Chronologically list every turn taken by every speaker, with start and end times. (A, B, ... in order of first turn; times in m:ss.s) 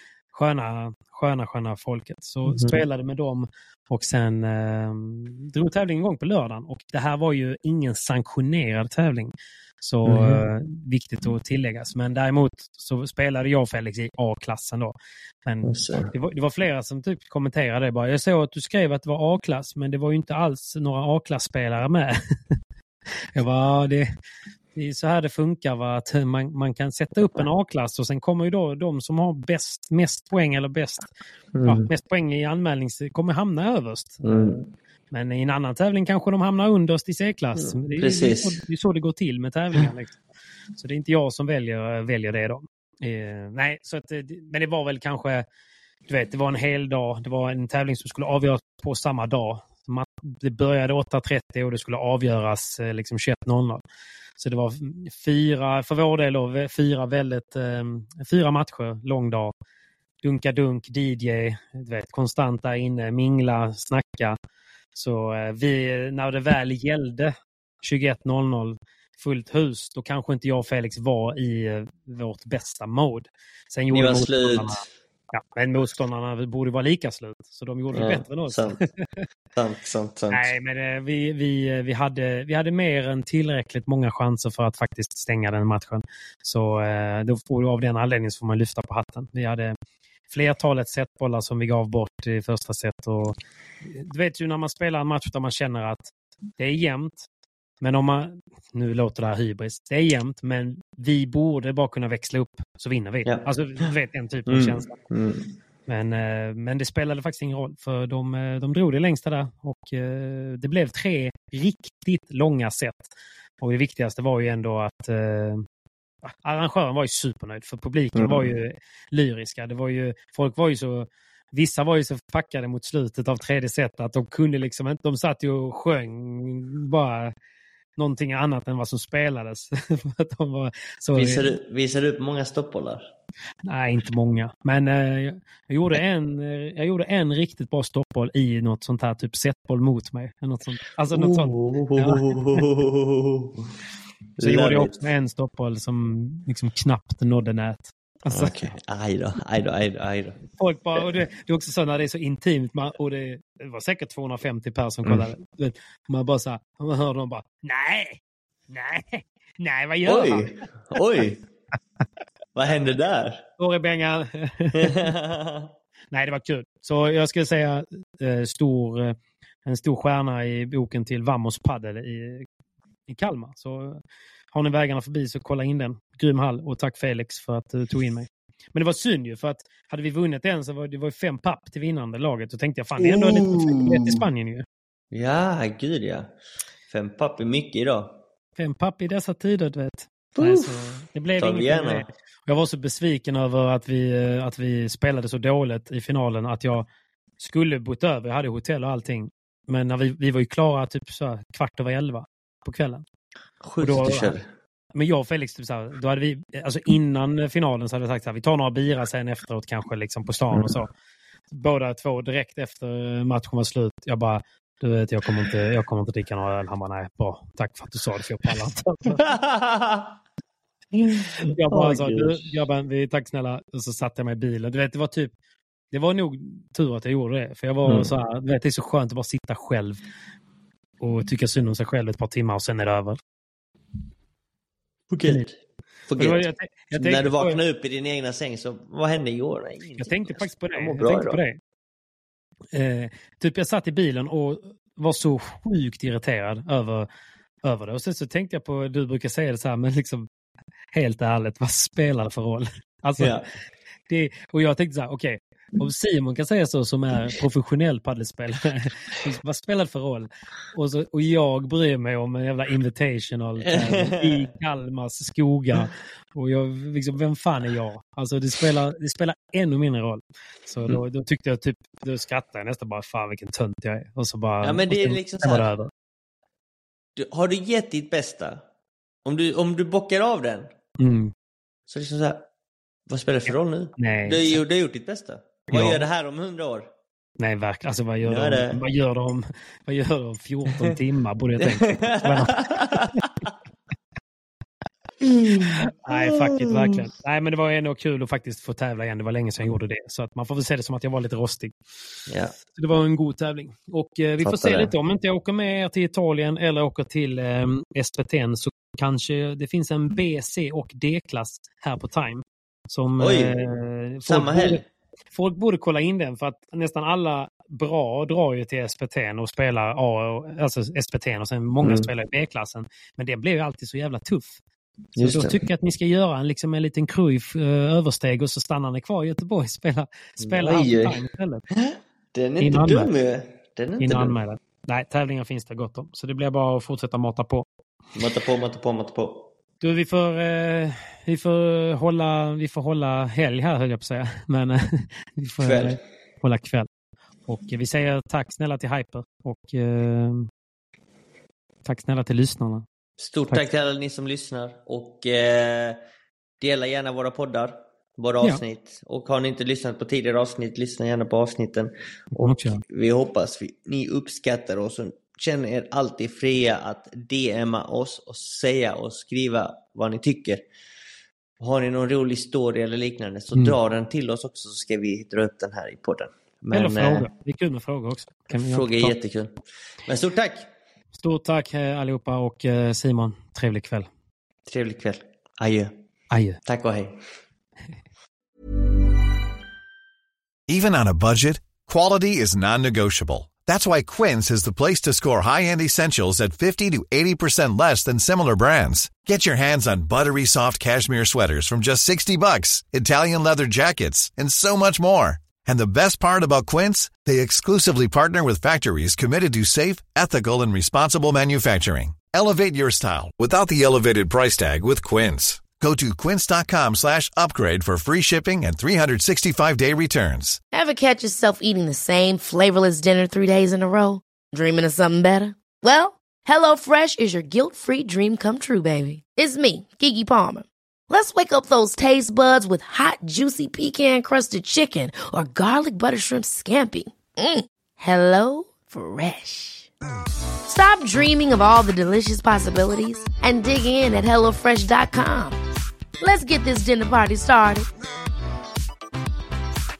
0:00.3-0:22.6 A
0:02.5-0:02.8 B
0:10.0-0:10.5 B
0:15.6-0:16.1 B
0:23.4-0:24.1 A
0:24.8-0:31.1 A
0:31.5-0:31.9 B
0:31.6-0:34.2 A
0:34.2-0:34.7 B
0:35.1-0:40.2 A
0:37.6-0:38.6 B
0:40.8-0:45.4 A
0:46.1-0:53.8 A
0:54.4-0:59.5 A
1:00.2-1:04.4 A
1:05.0-1:19.2 A
1:13.9-1:14.9 B
1:17.9-1:18.8 B
1:19.5-1:20.5 B
1:20.3-1:29.8 A
1:30.3-1:37.3 A
1:37.8-1:45.0 A
1:43.3-1:43.9 B
1:44.5-1:45.5 B
1:45.9-1:55.6 A
1:56.2-2:07.3 A
1:58.2-1:58.5 B
2:08.0-2:11.5 A
2:11.2-2:13.0 B
2:13.6-2:22.6 A
2:21.1-2:23.7 B
2:24.4-2:25.0 B
2:24.4-2:28.7 A
2:28.3-2:30.4 B
2:30.6-2:40.5 A
2:40.1-2:41.4 B
2:42.6-2:43.4 B
2:43.6-2:45.0 A
2:44.8-2:45.7 B
2:46.1-2:52.5 A
2:53.1-2:54.0 A
2:54.5-3:04.6 A
3:03.0-3:04.2 B
3:05.1-3:06.3 B
3:06.9-3:08.2 B
3:08.6-3:16.9 A
3:10.4-3:12.1 B
3:17.4-3:23.0 A
3:23.6-3:24.4 B
3:23.8-3:24.4 A
3:25.0-3:30.9 A
3:30.5-3:30.8 B
3:31.5-3:39.2 A
3:39.1-3:40.1 B
3:41.0-3:42.5 B
3:41.4-3:45.3 A
3:45.9-3:50.0 A
3:47.9-3:48.1 B
3:51.0-3:53.2 A
3:55.1-3:55.6 B
3:56.1-4:01.4 B
3:56.2-3:57.6 A
4:00.0-4:01.6 A
4:02.7-4:07.1 A
4:07.6-4:10.3 A
4:10.9-4:13.4 A
4:13.2-4:13.5 B
4:14.1-4:35.9 A
4:23.7-4:24.4 B
4:34.6-4:35.7 B
4:37.2-4:38.6 B
4:39.2-4:40.7 B
4:41.0-4:41.3 A
4:41.9-4:42.4 B
4:43.1-4:46.9 B
4:43.5-4:44.5 A
4:45.7-4:46.0 A
4:47.4-4:53.3 A
4:48.2-4:48.8 B
4:51.6-4:53.1 B
4:55.2-4:57.0 B
4:55.6-5:01.8 A
5:02.3-5:02.5 B
5:02.6-5:14.8 A
5:04.4-5:04.9 B
5:13.2-5:13.6 B
5:14.2-5:14.8 B
5:15.3-5:24.6 A
5:21.8-5:22.1 B
5:25.2-5:25.6 B
5:25.2-5:31.6 A
5:30.4-5:31.2 B
5:31.7-5:34.4 B
5:32.6-5:33.1 A
5:34.0-5:37.6 A
5:38.2-5:39.5 B
5:39.8-5:46.9 A
5:45.6-5:46.0 B
5:47.5-5:50.5 A
5:51.8-5:52.8 A
5:53.2-5:56.0 B
5:56.6-6:10.6 B
6:02.4-6:02.8 A
6:11.6-6:17.3 B
6:16.7-6:19.2 A
6:18.5-6:20.7 B
6:21.2-6:24.1 A
6:24.7-6:25.9 B
6:26.3-6:26.6 A
6:26.6-6:27.2 B
6:30.7-7:00.6 C
7:00.7-7:19.9 D
7:20.7-7:25.6 D
7:26.2-7:27.9 D